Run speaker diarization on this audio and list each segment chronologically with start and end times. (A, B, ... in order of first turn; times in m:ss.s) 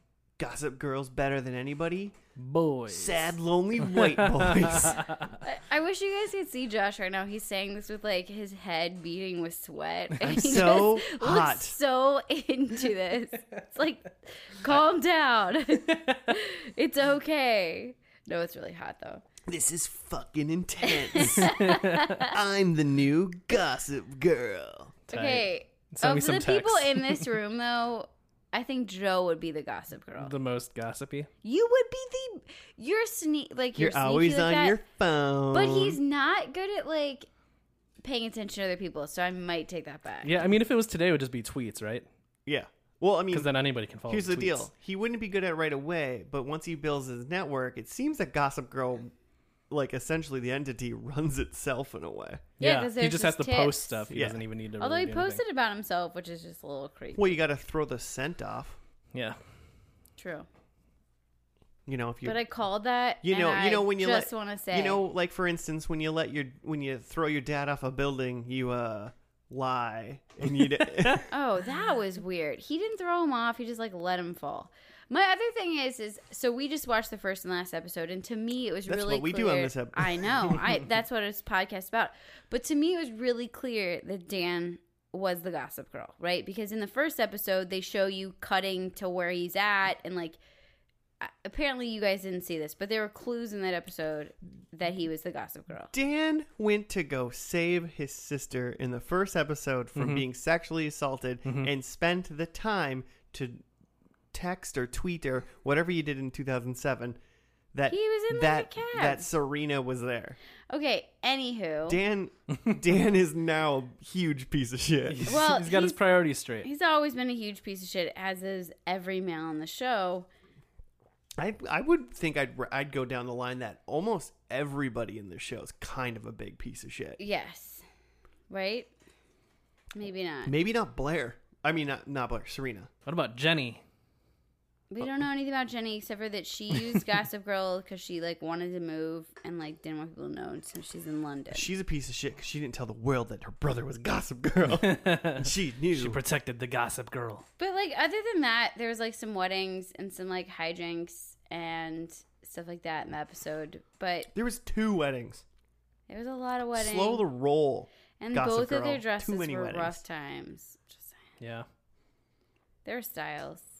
0:00.4-0:02.2 A
0:02.4-0:05.4 B
0:02.9-0:05.0 A
0:05.4-0:19.2 C
0:10.2-0:11.8 A
0:19.5-0:21.7 A
0:20.8-0:22.3 C
0:21.2-0:22.2 B
0:22.2-0:25.0 A
0:25.1-0:27.4 B
0:25.1-0:30.3 C
0:30.2-0:31.3 B
0:31.4-0:34.8 C
0:33.8-0:36.0 A
0:35.5-0:37.3 C
0:38.0-0:40.4 C
0:40.2-0:42.1 B
0:42.5-0:43.5 A
0:43.3-0:44.7 B
0:44.1-0:49.1 A
0:49.7-0:52.4 A
0:52.6-0:55.4 B
0:52.6-0:54.0 C
0:54.1-0:54.4 A
0:54.8-0:57.4 C
0:57.2-0:58.8 A
0:59.1-0:59.4 B
1:00.2-1:00.5 C
1:01.9-1:02.4 A
1:02.2-1:05.0 C
1:03.2-1:11.3 A
1:10.8-1:11.2 B
1:11.3-1:30.4 C
1:18.9-1:20.6 A
1:31.2-1:35.9 C
1:35.9-1:43.6 A
1:40.0-1:40.2 B
1:44.3-1:47.2 A
1:47.7-1:50.4 A
1:47.9-1:49.3 C
1:50.7-1:52.0 C
1:51.9-1:55.4 A
1:55.1-1:56.7 B
1:55.3-1:56.0 C
1:56.6-2:00.3 C
2:01.4-2:07.2 A
2:07.2-2:07.8 C
2:08.5-2:08.9 C
2:09.9-2:10.5 C
2:10.5-2:12.9 A
2:13.1-2:13.8 B
2:14.9-2:21.7 C
2:21.5-2:26.2 A
2:24.7-2:27.5 B
2:27.6-2:34.3 C
2:34.3-2:35.4 A
2:36.1-2:37.2 C
2:36.7-2:40.0 A
2:38.2-2:41.2 C
2:41.4-2:41.7 B
2:42.8-2:43.7 C